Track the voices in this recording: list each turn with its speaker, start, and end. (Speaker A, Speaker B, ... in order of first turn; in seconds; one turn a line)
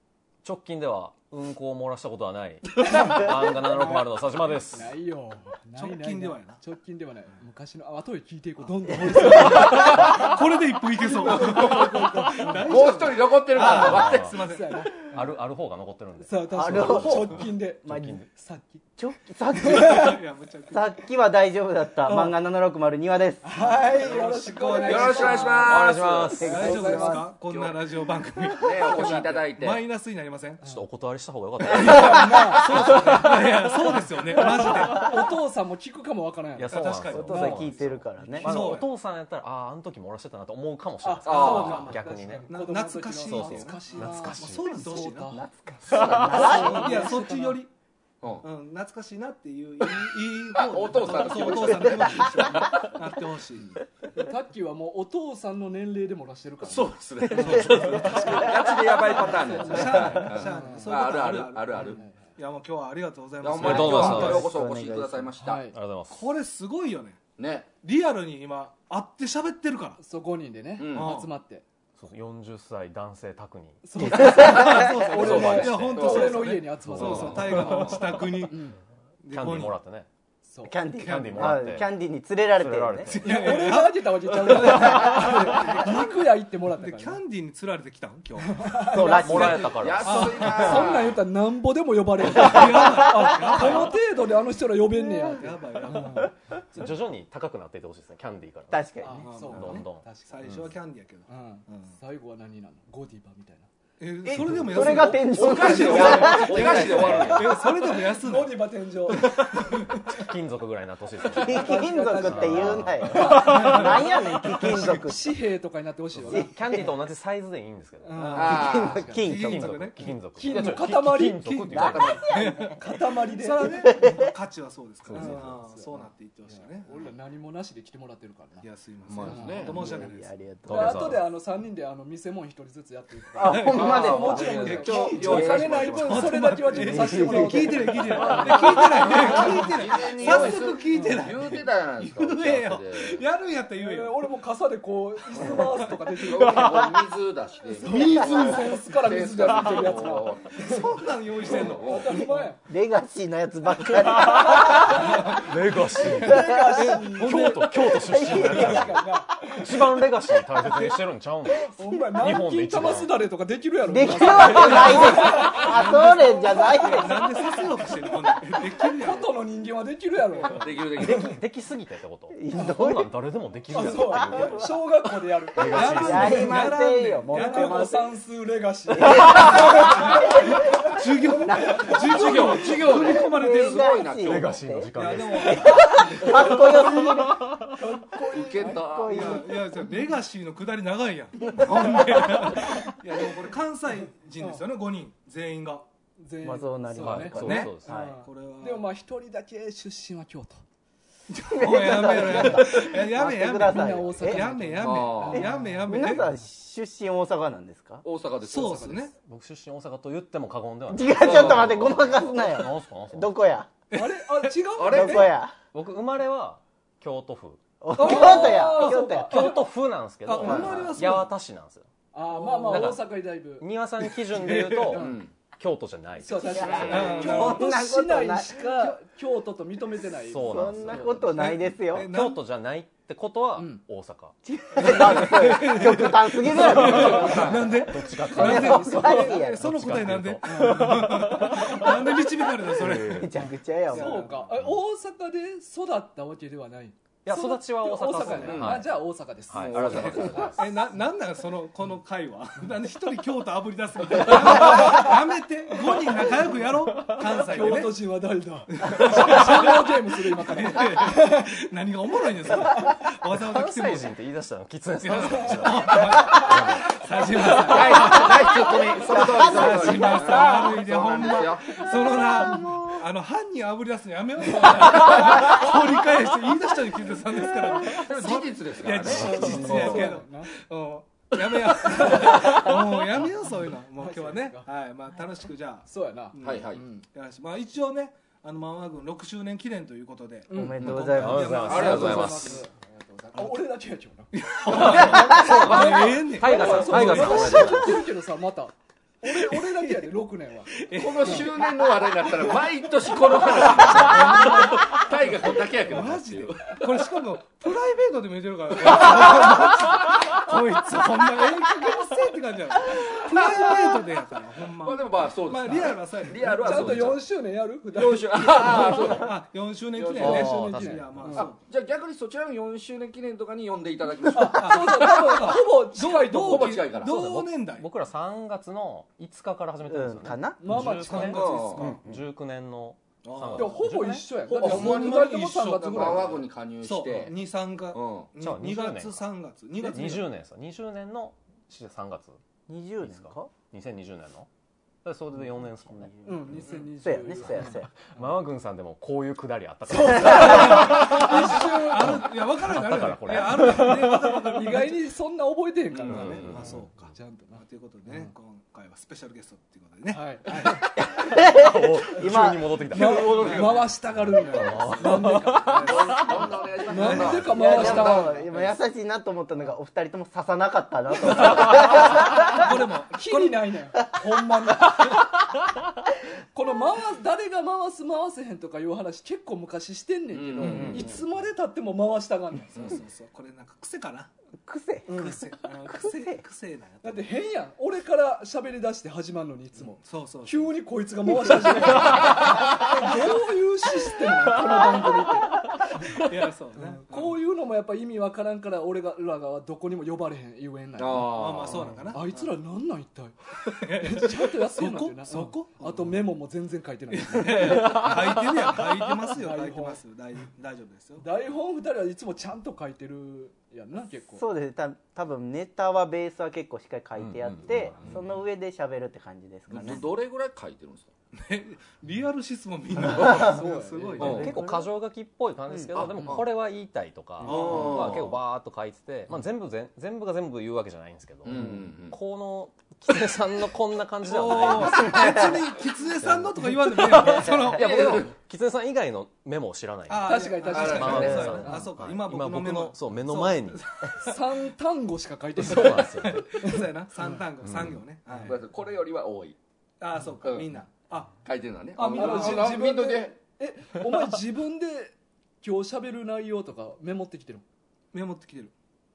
Speaker A: 0.4-4.9
Speaker B: 2.8-4.1
Speaker B: 4.7-12.8
Speaker C: 5.8-6.6
Speaker C: 9.1-15.0
Speaker D: 11.4-11.9
Speaker D: 12.6-14.4
Speaker B: 13.7-15.3
Speaker A: 13.9-14.3
Speaker A: 15.1-18.3
Speaker B: 16.2-18.8
Speaker E: 16.5-18.2
Speaker E: 19.0-20.1
Speaker B: 19.5-20.2
Speaker C: 19.6-20.9
Speaker E: 20.7-23.5
Speaker B: 22.0-22.3
Speaker B: 23.4-25.9
Speaker C: 23.6-25.7
Speaker D: 24.8-26.5
Speaker A: 25.6-26.9
Speaker E: 26.4-27.3
Speaker C: 26.4-30.6
Speaker B: 26.4-27.2
Speaker D: 27.4-28.0
Speaker D: 28.5-29.8
Speaker A: 30.6-33.4
Speaker C: 31.7-35.2
Speaker B: 31.7-33.5
Speaker B: 34.4-37.7
Speaker A: 36.6-42.5
Speaker C: 36.7-38.9
Speaker E: 37.1-38.8
Speaker B: 41.0-45.5
Speaker D: 41.2-41.9
Speaker C: 42.5-45.4
Speaker A: 43.2-44.7
Speaker E: 45.3-47.1
Speaker D: 45.8-47.0
Speaker A: 45.9-46.4
Speaker C: 46.2-47.7
Speaker B: 46.2-47.6
Speaker C: 48.4-53.8
Speaker D: 49.8-52.6
Speaker B: 53.6-58.4
Speaker D: 56.6-62.0
Speaker E: 57.3-58.7
Speaker C: 57.4-58.0
Speaker A: 57.8-58.2
Speaker B: 59.1-61.0
Speaker C: 59.5-64.5
Speaker B: 61.8-62.4
Speaker D: 63.4-65.6
Speaker A: 63.6-64.5
Speaker E: 64.0-65.3
Speaker B: 65.4-65.8
Speaker A: 65.6-66.3
Speaker C: 66.1-67.2
Speaker D: 67.4-67.7
Speaker C: 67.8-70.0
Speaker B: 70.0-71.7
Speaker D: 70.8-71.2
Speaker C: 70.9-71.3
Speaker A: 72.0-74.3
Speaker B: 73.8-78.8
Speaker C: 74.0-78.7
Speaker E: 74.1-74.9
Speaker D: 75.1-77.8
Speaker A: 75.2-76.2
Speaker C: 79.2-79.8
Speaker A: 79.3-80.1
Speaker B: 80.4-80.8
Speaker E: 80.7-83.2
Speaker A: 81.0-81.9
Speaker C: 81.0-81.7
Speaker A: 82.6-83.6
Speaker C: 83.1-86.1
Speaker B: 83.2-87.2
Speaker D: 84.4-85.7
Speaker C: 86.7-88.9
Speaker B: 88.4-96.3
Speaker A: 88.9-90.8
Speaker E: 88.9-89.8
Speaker D: 89.2-91.2
Speaker C: 90.0-91.0
Speaker C: 92.3-94.0
Speaker A: 93.5-93.9
Speaker C: 95.1-96.3
Speaker A: 96.7-99.0
Speaker E: 98.7-99.3
Speaker B: 99.0-100.4
Speaker C: 99.2-102.0
Speaker A: 99.5-100.7
Speaker B: 101.3-103.7
Speaker C: 104.0-108.6
Speaker E: 104.2-107.4
Speaker A: 104.3-105.0
Speaker D: 105.2-107.7
Speaker B: 105.6-109.3
Speaker C: 109.1-110.2
Speaker A: 110.1-114.0
Speaker B: 111.3-116.5
Speaker E: 111.3-115.3
Speaker C: 113.4-114.2
Speaker A: 116.2-118.6
Speaker E: 116.3-116.9
Speaker B: 118.0-119.3
Speaker C: 118.1-120.8
Speaker D: 118.3-119.0
Speaker E: 118.4-119.9
Speaker A: 119.2-122.3
Speaker B: 120.3-124.0
Speaker C: 121.4-126.9
Speaker E: 121.7-122.8
Speaker E: 123.8-124.3
Speaker A: 125.1-125.5
Speaker B: 125.1-128.7
Speaker C: 128.6-130.3
Speaker D: 129.1-129.8
Speaker B: 129.2-129.8
Speaker E: 129.6-131.1
Speaker A: 130.6-131.2
Speaker B: 130.7-141.2
Speaker E: 133.3-135.7
Speaker C: 133.4-144.2
Speaker D: 133.7-136.4
Speaker E: 136.8-138.0
Speaker D: 138.2-143.2
Speaker B: 143.8-147.0
Speaker C: 145.4-145.9
Speaker D: 146.2-150.8
Speaker A: 146.5-146.9
Speaker B: 147.7-150.9
Speaker E: 148.0-148.4
Speaker C: 150.6-152.4
Speaker D: 151.4-152.3
Speaker B: 151.6-152.6
Speaker E: 152.2-155.3
Speaker A: 154.0-163.2
Speaker B: 154.2-155.4
Speaker C: 154.9-155.5
Speaker C: 156.0-157.6
Speaker B: 156.0-159.9
Speaker E: 156.0-157.0
Speaker E: 157.9-159.0
Speaker B: 160.6-160.9
Speaker B: 161.6-170.7
Speaker E: 161.8-162.2
Speaker E: 163.9-167.2
Speaker C: 164.4-169.3
Speaker D: 164.7-165.6
Speaker C: 170.4-170.7
Speaker D: 170.5-171.4
Speaker A: 170.9-174.7
Speaker E: 172.3-173.1
Speaker B: 172.5-172.9
Speaker B: 173.7-176.7
Speaker E: 174.2-174.7
Speaker A: 175.6-176.6
Speaker C: 175.7-178.0
Speaker E: 175.9-178.0
Speaker B: 177.3-182.0
Speaker E: 179.0-180.3
Speaker C: 179.2-183.9
Speaker E: 181.4-187.5
Speaker D: 181.9-184.6
Speaker A: 184.2-185.9
Speaker C: 184.9-186.9
Speaker B: 185.9-189.4
Speaker A: 187.0-187.8
Speaker D: 188.3-189.4
Speaker E: 188.6-189.6
Speaker C: 189.1-195.9
Speaker E: 191.6-191.9
Speaker B: 196.2-200.6
Speaker E: 196.4-198.2
Speaker A: 197.0-198.1
Speaker C: 197.4-198.9
Speaker C: 201.3-206.3
Speaker E: 201.3-204.5
Speaker B: 203.6-205.9
Speaker D: 204.8-205.5
Speaker E: 205.4-208.0
Speaker D: 208.0-208.9
Speaker C: 208.5-209.1
Speaker B: 208.5-209.1
Speaker A: 209.2-213.3
Speaker E: 210.9-213.7
Speaker D: 211.2-211.7
Speaker C: 213.9-214.2
Speaker B: 213.9-215.4
Speaker D: 214.8-215.3
Speaker E: 214.8-215.6
Speaker A: 215.7-221.9
Speaker E: 217.8-219.5
Speaker B: 217.9-219.7
Speaker C: 220.2-221.3
Speaker E: 220.4-220.9
Speaker B: 222.1-223.7
Speaker A: 222.7-227.5
Speaker C: 224.3-225.1
Speaker B: 224.9-225.2
Speaker D: 224.9-225.3
Speaker B: 226.2-231.2
Speaker E: 226.4-228.9
Speaker C: 226.9-227.8
Speaker A: 230.2-235.0
Speaker E: 230.4-232.1
Speaker C: 231.3-232.4
Speaker B: 233.6-233.8
Speaker E: 234.4-237.7
Speaker C: 234.8-244.5
Speaker B: 236.6-237.6
Speaker D: 236.8-237.8
Speaker A: 237.0-242.2
Speaker B: 238.2-239.5
Speaker E: 238.4-239.9
Speaker B: 240.4-241.9
Speaker A: 242.7-243.3
Speaker E: 242.8-244.3
Speaker B: 243.3-250.5
Speaker A: 247.2-250.8
Speaker D: 248.2-248.8
Speaker D: 249.5-250.5
Speaker C: 250.6-258.0
Speaker B: 254.4-255.1
Speaker A: 255.9-257.8
Speaker B: 257.4-261.5
Speaker C: 258.7-264.1
Speaker A: 263.3-268.0
Speaker C: 265.0-292.6
Speaker B: 265.3-265.6
Speaker B: 266.2-266.5
Speaker D: 267.6-272.1
Speaker E: 269.0-270.4
Speaker E: 272.3-273.0
Speaker D: 277.8-280.1
Speaker B: 279.1-280.5
Speaker D: 281.5-282.4
Speaker B: 282.0-282.6
Speaker B: 283.9-284.7
Speaker B: 285.9-287.1
Speaker D: 286.4-286.8
Speaker B: 290.5-290.8
Speaker E: 290.5-291.7
Speaker D: 290.8-292.4
Speaker A: 291.1-292.6
Speaker B: 291.5-301.5
Speaker C: 294.3-297.5
Speaker D: 294.7-297.9
Speaker A: 294.9-295.6
Speaker A: 296.4-298.0
Speaker C: 299.3-300.0
Speaker C: 300.8-317.1
Speaker D: 301.0-306.9
Speaker D: 308.9-309.6
Speaker D: 313.3-313.7
Speaker D: 314.8-317.2
Speaker B: 316.4-318.7
Speaker D: 317.9-319.3
Speaker C: 318.3-321.6
Speaker D: 319.9-320.5
Speaker B: 320.1-321.4
Speaker A: 320.2-321.4
Speaker D: 321.3-325.6
Speaker C: 324.3-327.9
Speaker B: 324.3-326.8
Speaker D: 326.2-327.1
Speaker A: 327.0-334.3
Speaker E: 329.9-330.6
Speaker B: 330.6-331.6
Speaker C: 330.7-332.0
Speaker D: 331.1-331.9
Speaker E: 331.8-332.2
Speaker C: 333.2-333.8
Speaker B: 333.6-336.4
Speaker C: 334.5-340.3
Speaker D: 334.5-337.3
Speaker D: 337.9-338.3
Speaker A: 338.4-339.3
Speaker A: 339.8-342.4
Speaker E: 342.7-343.5
Speaker A: 343.0-344.5
Speaker A: 345.0-346.1
Speaker E: 345.5-347.9
Speaker B: 346.2-348.3
Speaker A: 347.5-354.5
Speaker B: 349.9-352.2
Speaker C: 350.3-355.0
Speaker E: 350.3-350.8
Speaker B: 353.6-358.3
Speaker D: 355.9-356.6
Speaker C: 356.0-360.8
Speaker A: 356.1-356.8
Speaker B: 360.1-360.8
Speaker E: 360.9-362.7
Speaker A: 361.3-363.6
Speaker B: 362.9-366.1
Speaker D: 362.9-363.9
Speaker C: 363.1-363.9
Speaker A: 364.4-366.3
Speaker C: 365.6-367.5
Speaker D: 365.8-368.7
Speaker B: 366.9-368.5
Speaker E: 367.5-372.7
Speaker C: 371.3-373.6
Speaker B: 372.6-375.3
Speaker B: 376.5-382.7
Speaker D: 380.3-381.1
Speaker C: 380.6-381.1
Speaker A: 380.8-381.0
Speaker C: 382.7-384.3
Speaker E: 384.6-386.4
Speaker B: 385.1-385.4
Speaker C: 385.1-387.3
Speaker B: 387.0-396.2
Speaker C: 389.9-390.7
Speaker A: 395.7-396.2
Speaker C: 396.1-397.4
Speaker B: 396.8-401.4
Speaker D: 401.0-402.0
Speaker C: 401.3-402.5
Speaker B: 402.1-408.1
Speaker C: 403.7-406.1
Speaker C: 407.1-411.2
Speaker A: 407.8-408.8
Speaker B: 409.3-410.0
Speaker B: 411.2-414.4
Speaker E: 414.3-420.1
Speaker A: 417.3-418.1
Speaker D: 417.9-418.2
Speaker D: 419.7-421.1
Speaker C: 421.3-424.6
Speaker B: 423.1-424.5
Speaker D: 423.2-423.5
Speaker D: 424.2-424.6
Speaker A: 424.2-435.6
Speaker E: 424.3-424.9
Speaker E: 425.7-425.9
Speaker D: 425.9-426.4
Speaker B: 426.0-426.4
Speaker C: 427.4-428.3
Speaker D: 427.5-428.3
Speaker D: 431.4-432.2
Speaker C: 434.2-438.3
Speaker E: 435.2-435.5
Speaker A: 436.2-444.1
Speaker D: 437.7-438.3
Speaker C: 440.1-444.4
Speaker B: 440.2-441.9
Speaker D: 440.6-441.6
Speaker B: 444.2-447.4
Speaker A: 445.6-446.7
Speaker C: 446.4-448.6
Speaker A: 447.6-448.0
Speaker B: 448.3-448.6
Speaker D: 448.4-449.6
Speaker C: 450.0-451.4
Speaker D: 451.4-453.4
Speaker C: 451.9-452.8
Speaker B: 452.1-457.6
Speaker C: 458.1-458.7